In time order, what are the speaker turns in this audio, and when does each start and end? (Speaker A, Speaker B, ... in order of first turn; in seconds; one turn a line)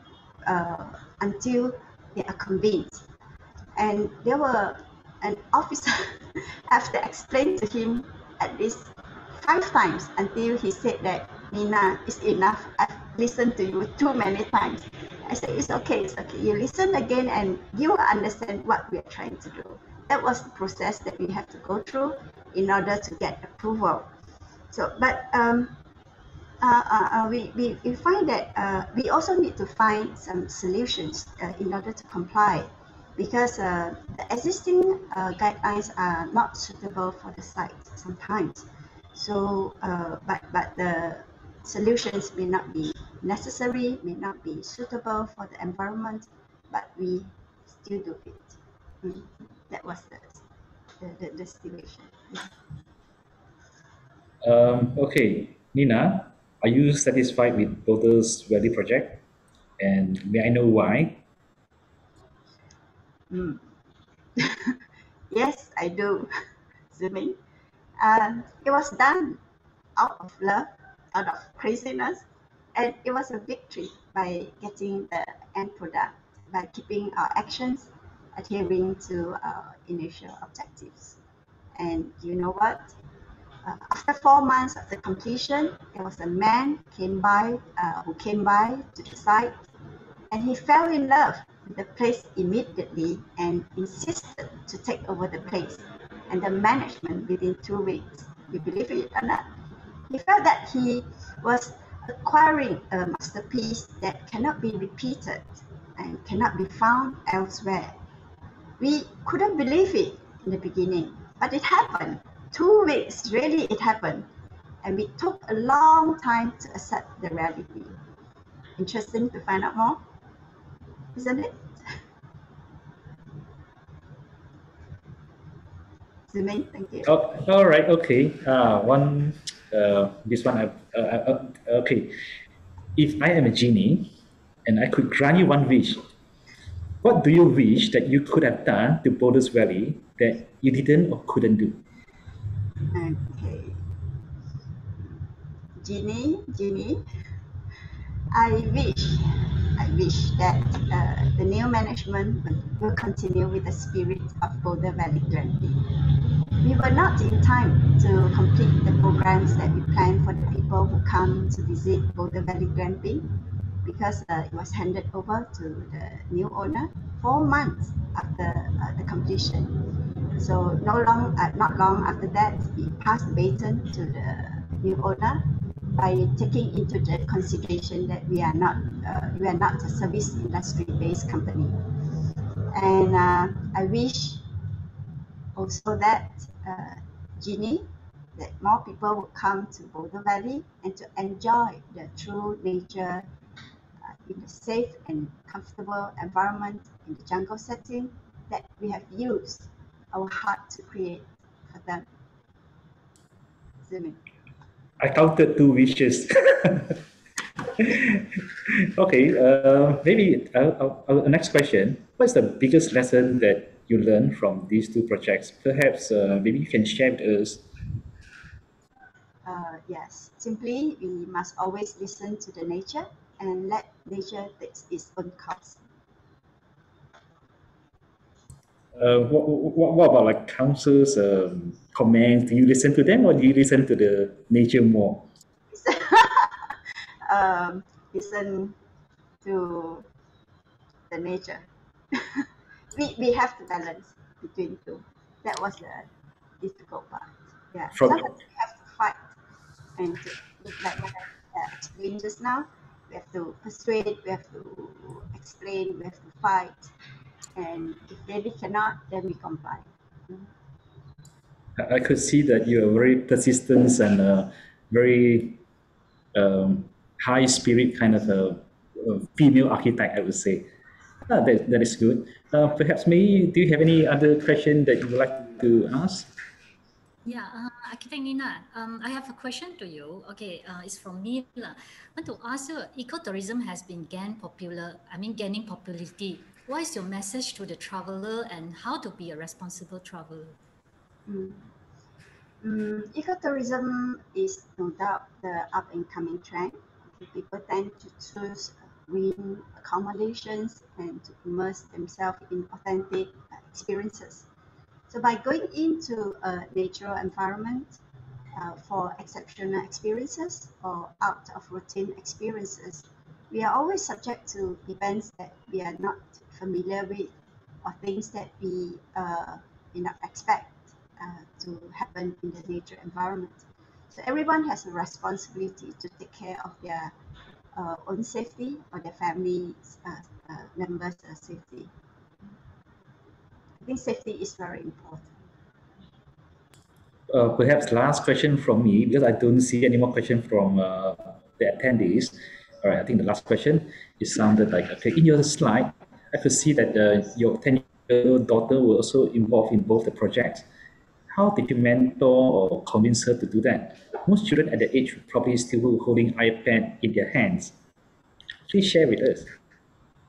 Speaker A: 0.4-3.0
Speaker A: 3.8-24.1
Speaker A: 24.7-25.7
Speaker A: 26.6-50.4
Speaker A: 51.0-52.5
Speaker B: 54.4-59.2
Speaker B: 59.8-61.2
Speaker A: 63.3-63.6
Speaker A: 64.4-64.8
Speaker A: 65.3-66.3
Speaker A: 66.9-67.4
Speaker A: 68.0-69.4
Speaker A: 70.0-72.2
Speaker A: 72.7-81.2
Speaker A: 81.8-82.9
Speaker A: 83.6-89.6
Speaker A: 90.3-99.5
Speaker A: 100.1-108.0
Speaker A: 108.8-114.3
Speaker A: 114.8-118.0
Speaker A: 118.8-120.0
Speaker A: 121.1-122.0
Speaker A: 126.3-127.1
Speaker B: 127.0-132.2
Speaker B: 132.9-134.1
Speaker B: 134.7-136.0
Speaker B: 137.0-141.8
Speaker A: 142.9-143.8
Speaker A: 145.8-147.0
Speaker A: 148.3-163.3
Speaker A: 163.8-181.9
Speaker A: 182.7-184.4
Speaker A: 185.5-193.2
Speaker A: 194.1-202.1
Speaker A: 203.8-204.2
Speaker B: 205.0-207.0
Speaker B: 207.8-208.2
Speaker B: 208.9-217.7
Speaker A: 219.4-225.8
Speaker B: 228.9-235.3
Speaker A: 235.7-236.7
Speaker A: 237.3-238.7
Speaker A: 239.4-240.0
Speaker A: 241.1-246.1
Speaker A: 246.6-249.3
Speaker B: 247.9-248.3
Speaker A: 250.0-256.9
Speaker A: 257.6-260.5
Speaker B: 261.8-265.6
Speaker B: 266.3-270.7
Speaker B: 271.3-276.3
Speaker C: 277.2-290.6
Speaker A: 291.2-291.7
Speaker A: 292.6-304.4
Speaker A: 305.1-308.0
Speaker A: 308.6-317.3
Speaker A: 317.8-327.1
Speaker A: 327.7-331.9
Speaker A: 333.8-335.3
Speaker B: 337.3-350.6
Speaker B: 351.3-357.7
Speaker B: 358.7-359.5